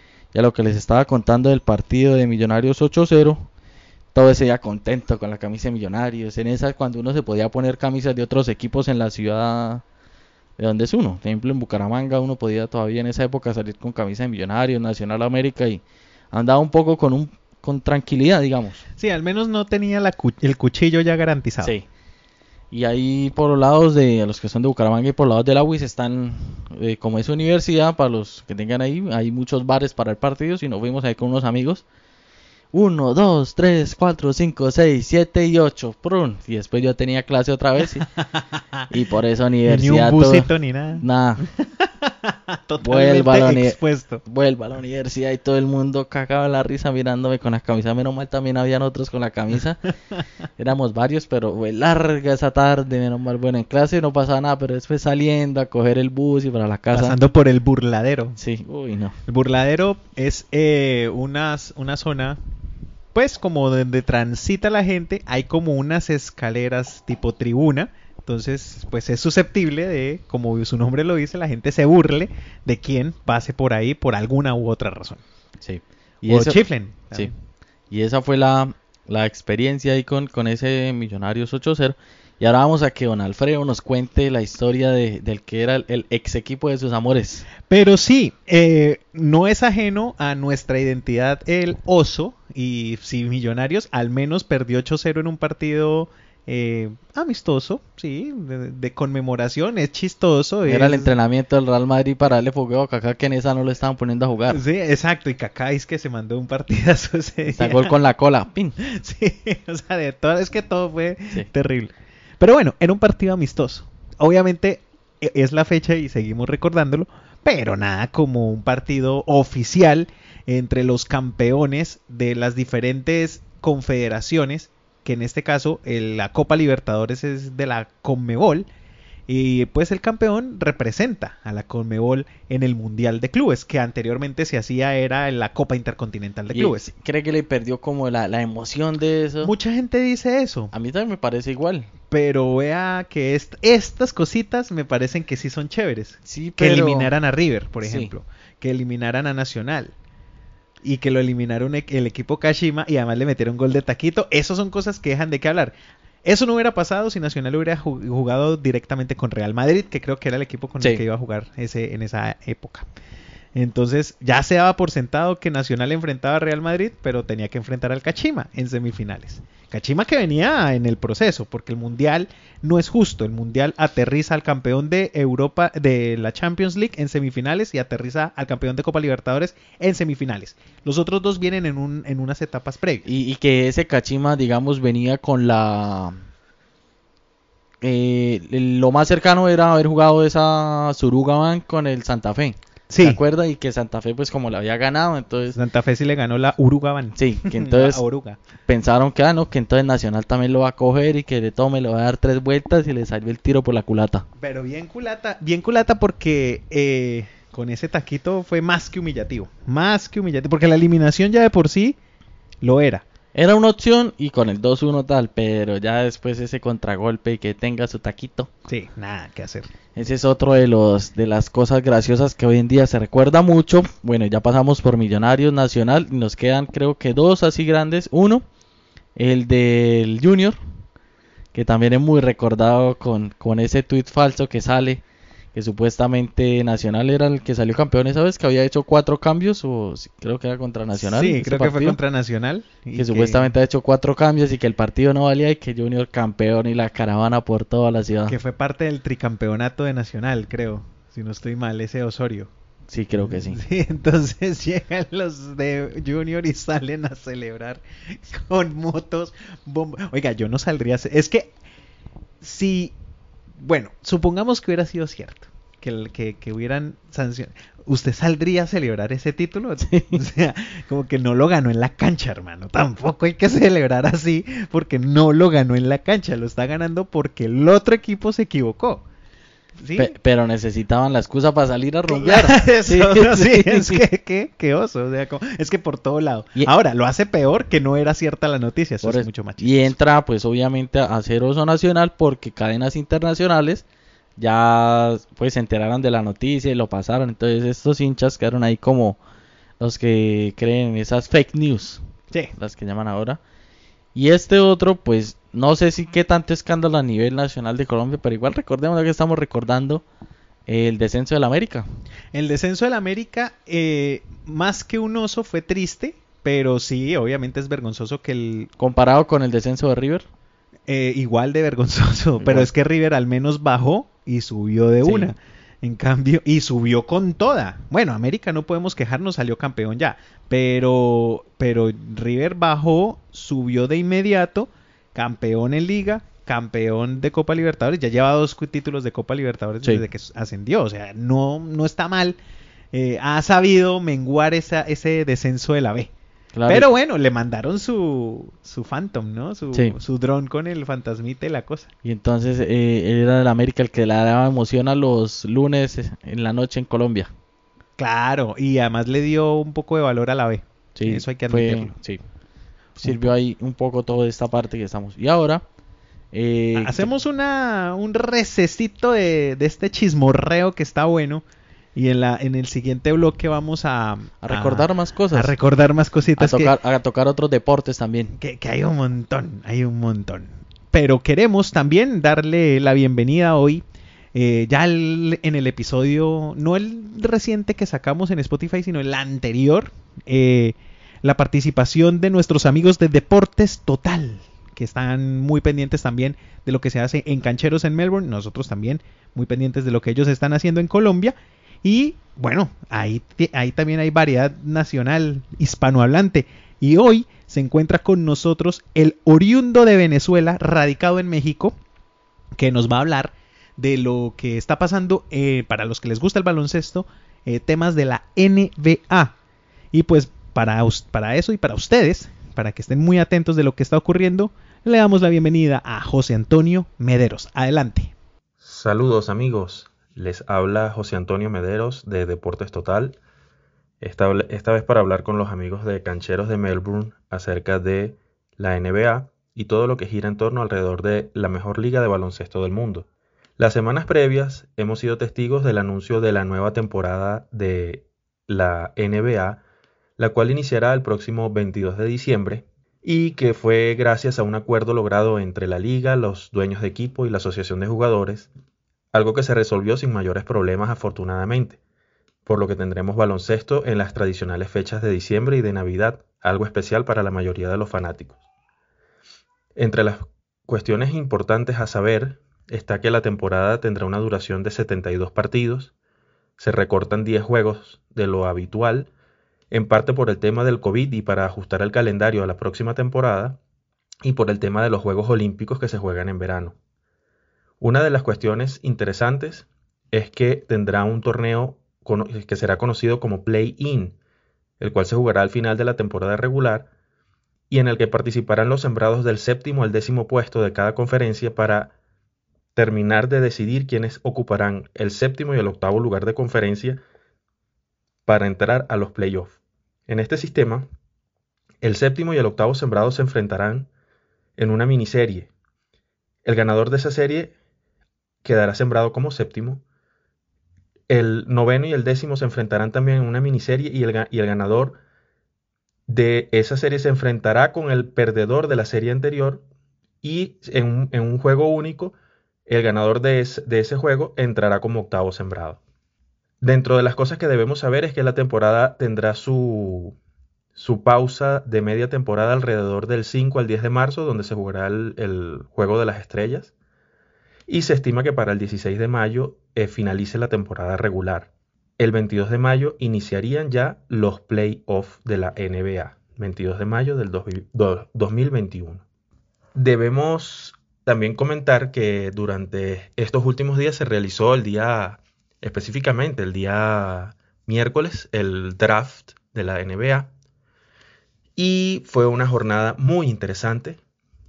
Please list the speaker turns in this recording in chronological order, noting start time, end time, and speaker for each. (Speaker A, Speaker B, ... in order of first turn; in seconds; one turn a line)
Speaker A: 0.3-3.5
Speaker A: 4.1-9.8
Speaker A: 10.6-18.8
Speaker B: 19.0-21.8
Speaker A: 22.7-31.8
Speaker A: 32.7-38.1
Speaker B: 38.0-38.9
Speaker A: 38.9-41.5
Speaker B: 39.7-44.2
Speaker A: 42.8-49.9
Speaker A: 50.6-57.2
Speaker B: 56.9-58.4
Speaker A: 58.4-59.2
Speaker B: 59.3-62.4
Speaker B: 63.1-75.2
Speaker A: 75.6-76.6
Speaker B: 76.3-77.3
Speaker A: 77.9-87.5
Speaker B: 87.7-101.1
Speaker A: 100.7-104.6
Speaker B: 104.5-108.0
Speaker A: 107.5-108.8
Speaker B: 108.8-128.7
Speaker B: 129.3-136.9
Speaker A: 136.5-139.5
Speaker B: 139.4-140.7
Speaker A: 140.7-141.9
Speaker B: 142.1-149.9
Speaker A: 146.3-147.1
Speaker A: 147.8-148.1
Speaker B: 150.8-162.9
Speaker B: 163.6-183.1
Speaker A: 183.1-186.2
Speaker A: 187.8-195.6
Speaker B: 192.9-193.2
Speaker B: 195.5-198.4
Speaker A: 197.2-198.0
Speaker A: 198.7-204.2
Speaker B: 204.4-212.0
Speaker B: 212.6-213.0
Speaker A: 213.3-218.5
Speaker B: 218.7-219.7
Speaker A: 219.9-228.4
Speaker A: 229.2-230.6
Speaker A: 231.5-235.0
Speaker A: 235.5-242.0
Speaker B: 241.0-243.5
Speaker A: 243.0-248.4
Speaker B: 248.3-252.5
Speaker A: 252.9-253.6
Speaker B: 253.2-261.5
Speaker B: 262.4-263.0
Speaker B: 263.6-279.0
Speaker A: 269.8-270.2
Speaker B: 279.8-280.1
Speaker A: 279.9-284.0
Speaker B: 282.1-289.9
Speaker A: 289.0-293.8
Speaker A: 294.4-299.2
Speaker A: 299.8-302.0
Speaker A: 302.6-303.4
Speaker A: 304.1-310.0
Speaker A: 310.7-311.9
Speaker B: 312.3-318.7
Speaker A: 318.8-320.3
Speaker B: 320.9-342.4
Speaker A: 322.4-322.7
Speaker A: 325.0-325.3
Speaker B: 342.9-346.1
Speaker A: 346.5-346.9
Speaker B: 346.7-351.9
Speaker A: 352.0-357.3
Speaker B: 358.0-361.9
Speaker A: 360.9-362.2
Speaker B: 363.0-363.3
Speaker A: 363.0-365.6
Speaker A: 366.3-367.1
Speaker B: 366.8-371.4
Speaker B: 371.9-376.8
Speaker A: 374.4-375.5
Speaker A: 376.4-378.3
Speaker B: 378.4-411.8
Speaker B: 412.6-419.4
Speaker B: 419.9-428.1
Speaker C: 428.6-433.2
Speaker C: 434.0-443.1
Speaker C: 443.6-449.6
Speaker C: 450.2-458.5
Speaker C: 459.1-461.8
Speaker C: 462.5-468.4
Speaker C: 469.8-475.9
Speaker C: 476.6-479.1
Speaker C: 479.7-483.6
Speaker C: 484.2-486.8
Speaker C: 487.8-494.2
Speaker C: 494.8-496.9
Speaker C: 497.7-501.9
Speaker C: 502.8-507.0
Speaker C: 508.3-509.5
Speaker C: 510.1-510.9
Speaker C: 511.8-513.9
Speaker C: 514.6-515.5
Speaker C: 516.4-517.5
Speaker C: 518.4-519.8
Speaker C: 521.1-525.0
Speaker C: 526.1-529.6
Speaker C: 530.2-532.2
Speaker C: 532.7-535.8
Speaker C: 536.6-540.2
Speaker C: 540.8-546.7
Speaker C: 547.7-559.0
Speaker C: 559.8-570.3
Speaker C: 571.6-574.0